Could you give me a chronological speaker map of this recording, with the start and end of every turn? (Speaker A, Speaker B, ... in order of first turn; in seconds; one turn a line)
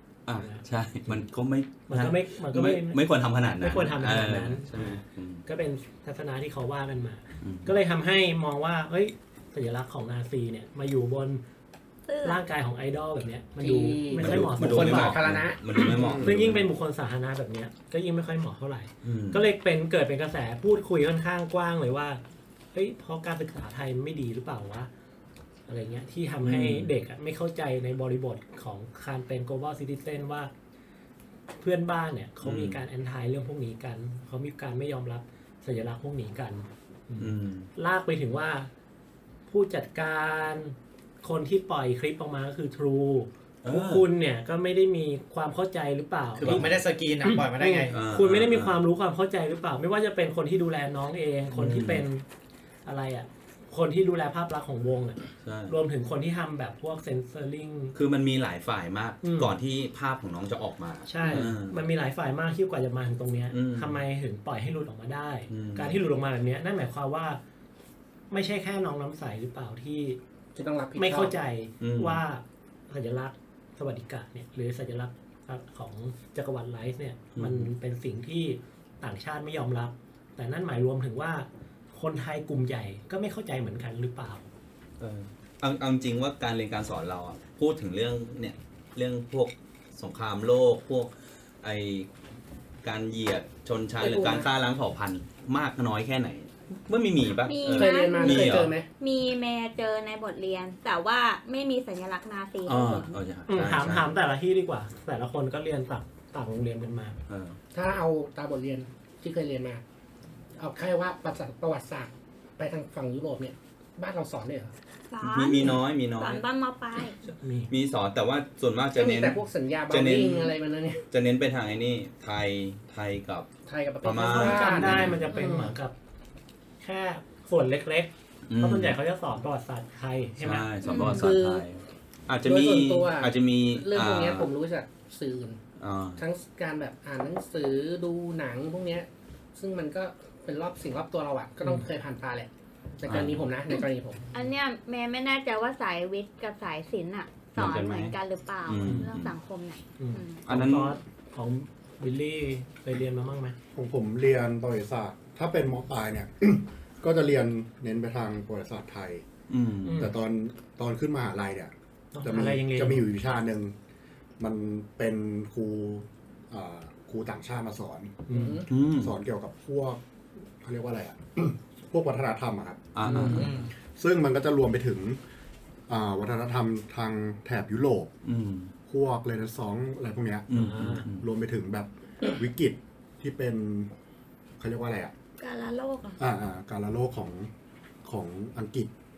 Speaker A: 0.2-5.4
Speaker B: 0.4-1.2
Speaker B: 1.9-11.4
Speaker A: 7.4-7.7
Speaker C: 12.1-12.4
Speaker B: 12.2-15.2
Speaker D: 13.6-15.6
Speaker A: 14.2-16.7
Speaker B: 15.7-22.2
Speaker E: 15.9-16.3
Speaker A: 19.0-19.5
Speaker B: 22.7-24.9
Speaker B: 25.7-30.5
Speaker A: 26.4-26.9
Speaker B: 31.6-38.7
Speaker A: 32.4-32.8
Speaker A: 37.2-37.7
Speaker B: 39.5-46.7
Speaker A: 43.6-44.1
Speaker F: 46.4-47.9
Speaker A: 46.4-46.7
Speaker B: 47.2-52.2
Speaker A: 47.9-48.8
Speaker A: 51.5-52.0
Speaker B: 52.9-58.0
Speaker A: 55.4-55.8
Speaker A: 57.9-61.8
Speaker B: 59.2-59.5
Speaker B: 61.1-67.4
Speaker A: 63.5-64.0
Speaker A: 65.5-66.0
Speaker B: 68.3-70.2
Speaker D: 70.5-71.3
Speaker B: 71.0-84.5
Speaker A: 71.8-72.2
Speaker A: 77.3-77.7
Speaker A: 85.0-91.1
Speaker A: 91.6-92.1
Speaker A: 92.8-98.7
Speaker D: 94.0-94.5
Speaker C: 97.4-103.2
Speaker D: 97.7-98.9
Speaker A: 102.7-104.1
Speaker B: 103.5-107.2
Speaker A: 107.3-107.6
Speaker D: 107.7-109.8
Speaker D: 110.6-114.7
Speaker C: 115.1-117.2
Speaker A: 115.2-116.4
Speaker B: 117.4-117.7
Speaker A: 117.7-120.5
Speaker D: 118.9-121.0
Speaker A: 121.1-123.5
Speaker D: 123.7-125.8
Speaker A: 124.0-125.2
Speaker B: 124.3-125.9
Speaker B: 126.8-131.0
Speaker A: 128.5-128.9
Speaker A: 130.4-134.5
Speaker C: 130.8-131.2
Speaker D: 131.0-131.7
Speaker D: 132.4-135.6
Speaker A: 135.8-136.2
Speaker D: 136.2-144.3
Speaker A: 143.0-143.5
Speaker C: 144.3-150.4
Speaker A: 147.5-148.1
Speaker A: 148.7-149.3
Speaker B: 148.8-149.1
Speaker B: 150.0-153.6
Speaker A: 150.5-150.9
Speaker E: 153.7-159.2
Speaker A: 159.5-160.1
Speaker B: 159.8-160.1
Speaker E: 159.9-163.7
Speaker B: 162.1-163.1
Speaker E: 164.4-168.3
Speaker B: 168.3-168.6
Speaker D: 168.3-168.7
Speaker A: 168.7-169.1
Speaker E: 168.8-170.0
Speaker E: 170.6-175.2
Speaker A: 172.9-173.5
Speaker B: 173.0-173.5
Speaker D: 173.0-173.5
Speaker F: 173.2-173.7
Speaker E: 175.9-178.1
Speaker A: 178.2-178.7
Speaker E: 178.9-180.5
Speaker A: 180.5-181.2
Speaker B: 180.5-181.1
Speaker E: 181.1-183.9
Speaker E: 184.6-185.1
Speaker C: 185.4-186.2
Speaker E: 186.2-187.5
Speaker E: 188.0-188.9